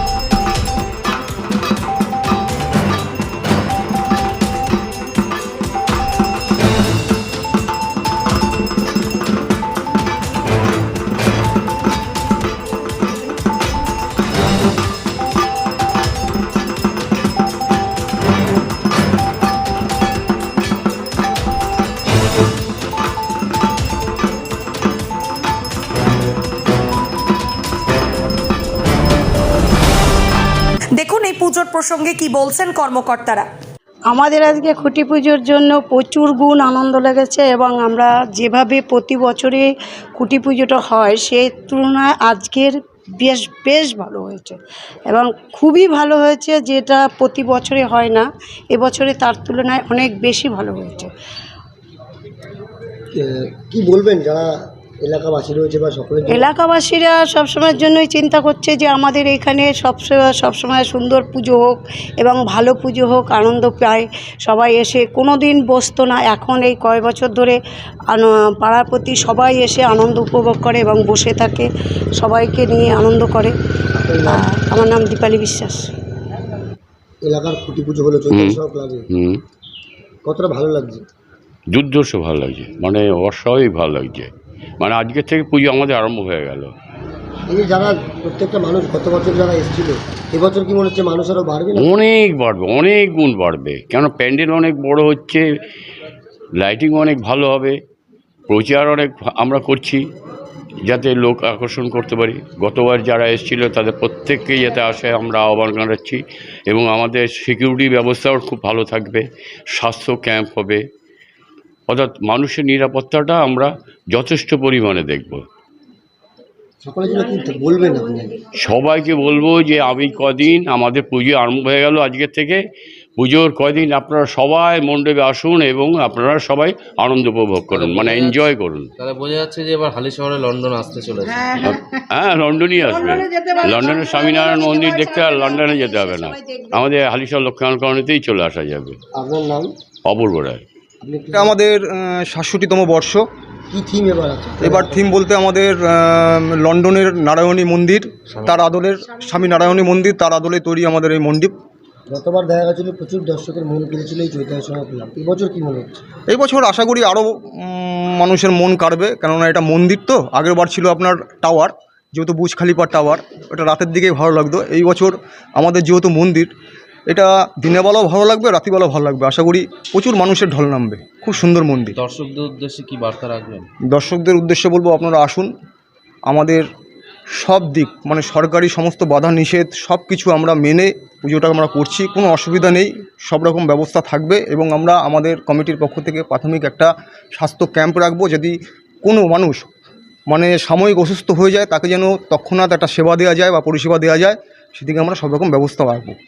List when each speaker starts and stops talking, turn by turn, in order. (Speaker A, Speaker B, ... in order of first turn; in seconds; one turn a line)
Speaker A: 30.9-33.5
Speaker B: 34.1-44.5
Speaker B: 45.1-51.1
Speaker C: 53.1-56.5
Speaker B: 56.3-67.6
Speaker B: 68.1-73.5
Speaker C: 74.0-74.5
Speaker B: 74.3-75.9
Speaker C: 77.2-79.0
Speaker D: 78.3-78.6
Speaker D: 79.1-79.4
Speaker C: 80.2-81.0
Speaker D: 81.7-84.3
Speaker D: 84.8-86.7
Speaker C: 87.5-91.9
Speaker D: 91.8-95.4
Speaker D: 96.6-97.8
Speaker D: 98.5-100.0
Speaker D: 100.9-110.8
Speaker D: 111.9-115.4
Speaker C: 116.8-118.4
Speaker D: 118.5-122.6
Speaker D: 123.2-128.9
Speaker E: 127.7-128.4
Speaker E: 129.0-131.5
Speaker D: 131.5-138.9
Speaker C: 139.1-139.7
Speaker D: 140.1-140.6
Speaker C: 141.0-141.6
Speaker F: 141.3-143.2
Speaker C: 143.7-145.1
Speaker F: 144.6-151.5
Speaker C: 152.1-156.0
Speaker F: 156.3-166.5
Speaker F: 167.1-171.9
Speaker E: 171.9-173.7
Speaker F: 173.9-175.5
Speaker F: 176.3-176.7
Speaker F: 177.3-189.7
Speaker F: 190.3-196.2